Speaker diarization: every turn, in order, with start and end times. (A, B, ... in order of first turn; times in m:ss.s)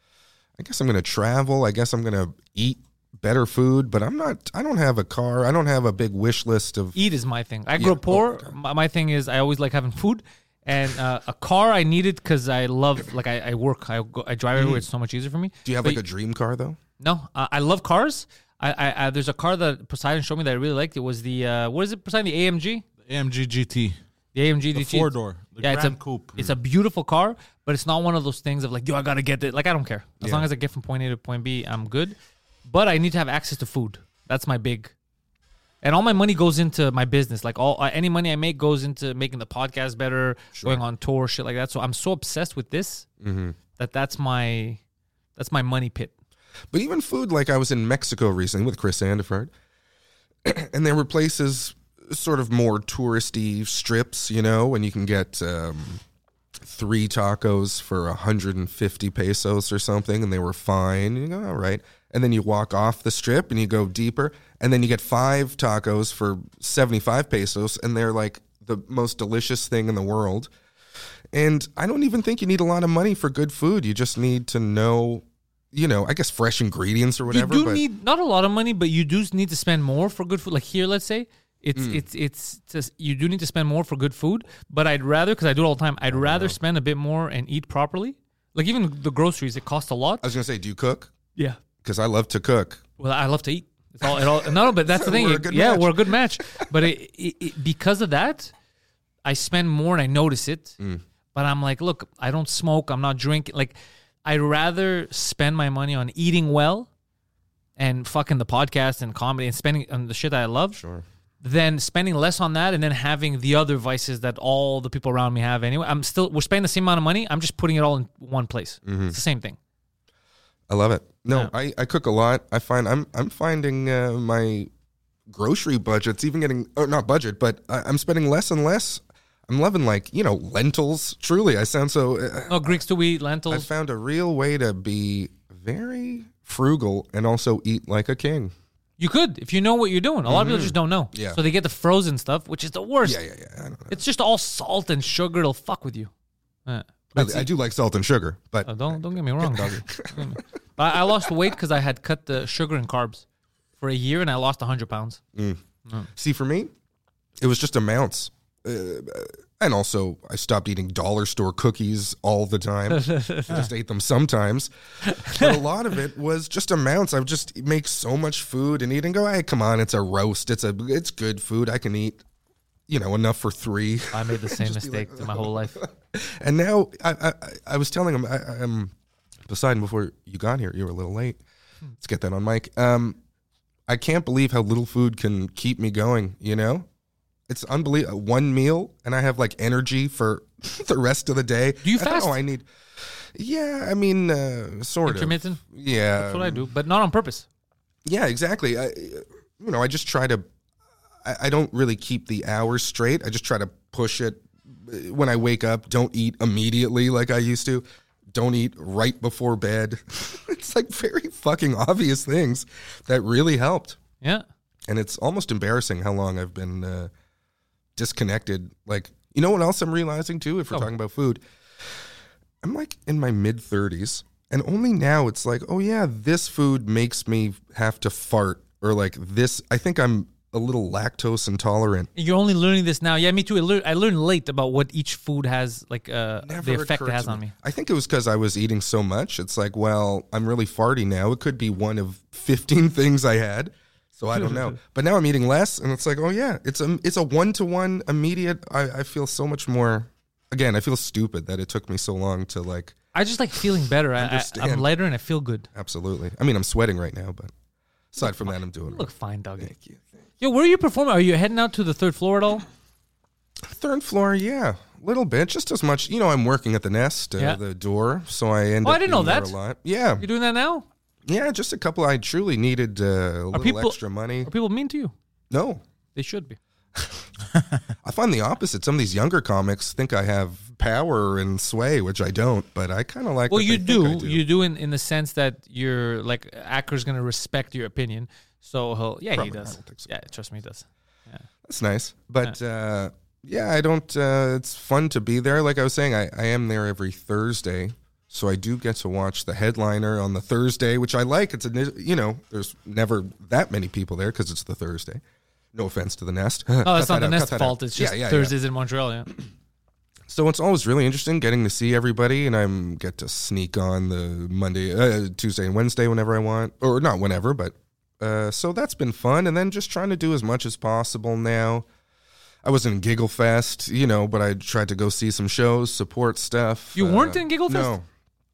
0:00.6-0:07.0 A
0:06.9-0:16.0 B
0:07.8-0:08.5 A
0:14.5-0:14.8 A
0:15.6-0:16.8 A
0:17.0-0:22.8 B
0:23.0-0:24.0 C
0:24.3-0:34.9 B
0:24.7-0:26.3 C
0:30.2-0:30.5 A
0:35.8-0:43.0 B
0:40.5-0:40.8 A
0:43.2-0:43.6 A
0:43.8-0:44.8 B
0:45.4-0:46.1 B
0:46.7-0:49.5 A
0:50.4-0:56.0 A
0:56.6-1:10.5 A
1:11.3-1:17.8 A
1:17.3-1:30.2 B
1:21.7-1:22.0 A
1:26.1-1:26.6 A
1:30.2-1:31.1 A
1:31.8-1:32.8 A
1:33.0-1:38.5 B
1:34.0-1:36.6 A
1:39.2-1:40.8 B
1:41.3-1:43.7 B
1:44.2-1:46.9 B
1:47.8-1:50.8 B
1:50.7-1:51.0 A
1:51.4-1:59.6 B
1:58.8-1:59.2 A
2:00.7-2:04.7 A
2:05.3-2:12.8 A
2:12.5-2:13.7 B
2:13.5-2:18.5 A
2:19.0-2:23.2 B
2:20.2-2:21.4 A
2:23.0-2:24.0 A
2:23.9-2:26.1 B
2:26.6-2:27.5 B
2:27.1-2:30.4 A
2:28.6-2:33.2 B
2:30.9-2:31.3 A
2:33.8-2:35.2 B
2:35.3-2:35.6 A
2:36.1-2:36.7 A
2:37.4-2:52.2 A
2:42.9-2:43.6 B
2:45.0-2:45.6 B
2:52.9-2:58.9 A
2:54.1-2:55.8 B
2:59.4-3:01.4 A
3:02.0-3:03.2 A
3:03.9-3:06.8 A
3:07.5-3:16.7 A
3:11.8-3:12.4 B
3:15.0-3:15.6 B
3:16.2-3:17.4 B
3:18.0-3:20.4 A
3:21.2-3:34.0 A
3:34.9-3:37.1 A
3:38.0-3:41.4 A
3:42.6-3:52.1 A
3:52.2-3:57.5 B
3:56.4-4:13.0 A
4:04.4-4:04.8 B
4:13.1-4:15.7 B
4:14.2-4:14.9 A
4:15.7-4:17.5 A
4:18.1-4:20.1 A
4:18.2-4:19.7 B
4:20.4-4:22.6 B
4:23.6-4:30.2 A
4:28.8-4:29.5 B
4:30.2-4:30.8 B
4:31.2-4:34.5 A
4:33.5-4:35.1 B
4:35.5-4:35.8 A
4:36.1-4:36.6 B
4:37.0-4:37.2 A
4:38.0-4:44.4 A
4:43.5-4:51.4 B
4:49.3-4:50.1 A
4:51.6-5:05.2 A
5:05.7-5:08.5 A
5:06.8-5:09.3 B
5:10.3-5:21.8 A
5:22.6-5:28.0 A
5:26.9-5:27.9 B